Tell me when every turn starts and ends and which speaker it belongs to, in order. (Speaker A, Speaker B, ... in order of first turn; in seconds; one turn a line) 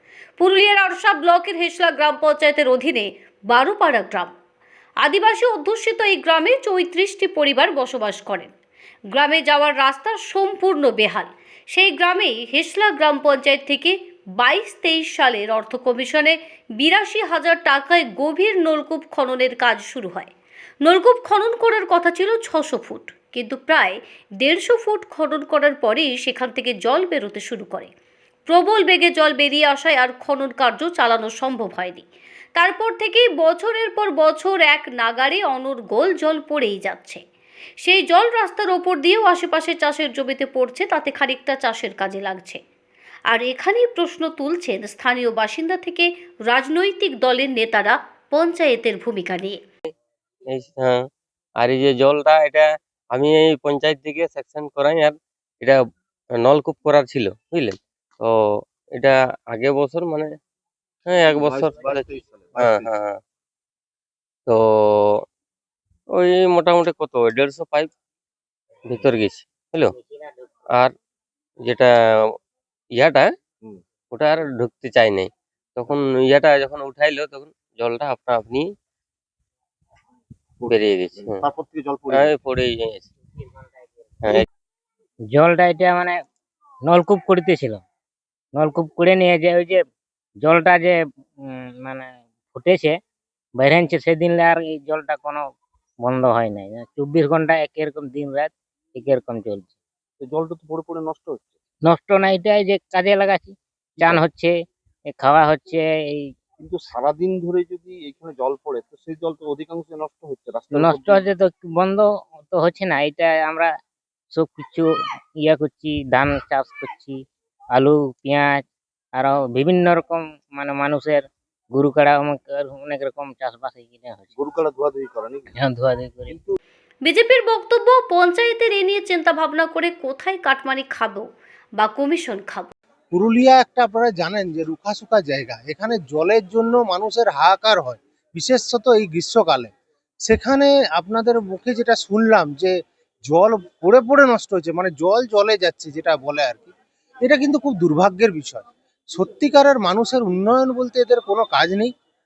Speaker A: 0.4-4.3
Speaker A: 5.0-8.5
Speaker A: 9.1-20.3
Speaker A: 20.8-27.9
Speaker A: 28.5-37.2
Speaker A: 37.8-42.6
Speaker A: 43.3-49.6
Speaker B: 50.5-51.0
Speaker B: 51.6-55.8
Speaker B: 56.4-58.4
Speaker B: 59.0-60.3
Speaker B: 61.1-63.2
Speaker C: 61.2-62.9
Speaker B: 64.5-65.2
Speaker B: 66.1-67.9
Speaker B: 68.8-69.9
Speaker D: 70.0-70.5
Speaker B: 71.6-71.9
Speaker B: 73.0-73.3
Speaker B: 74.1-78.7
Speaker C: 80.6-82.3
Speaker B: 80.7-81.4
Speaker B: 82.1-83.1
Speaker D: 83.6-83.9
Speaker D: 85.3-86.2
Speaker D: 86.8-87.8
Speaker D: 88.5-89.8
Speaker D: 90.4-93.0
Speaker D: 93.5-95.5
Speaker D: 96.0-99.8
Speaker C: 100.2-101.6
Speaker D: 101.8-106.3
Speaker C: 104.0-104.2
Speaker C: 106.6-111.2
Speaker D: 110.7-113.7
Speaker D: 114.3-124.4
Speaker C: 124.3-125.5
Speaker D: 125.5-126.4
Speaker C: 126.3-126.5
Speaker A: 127.0-132.7
Speaker E: 133.1-139.7
Speaker E: 140.2-151.9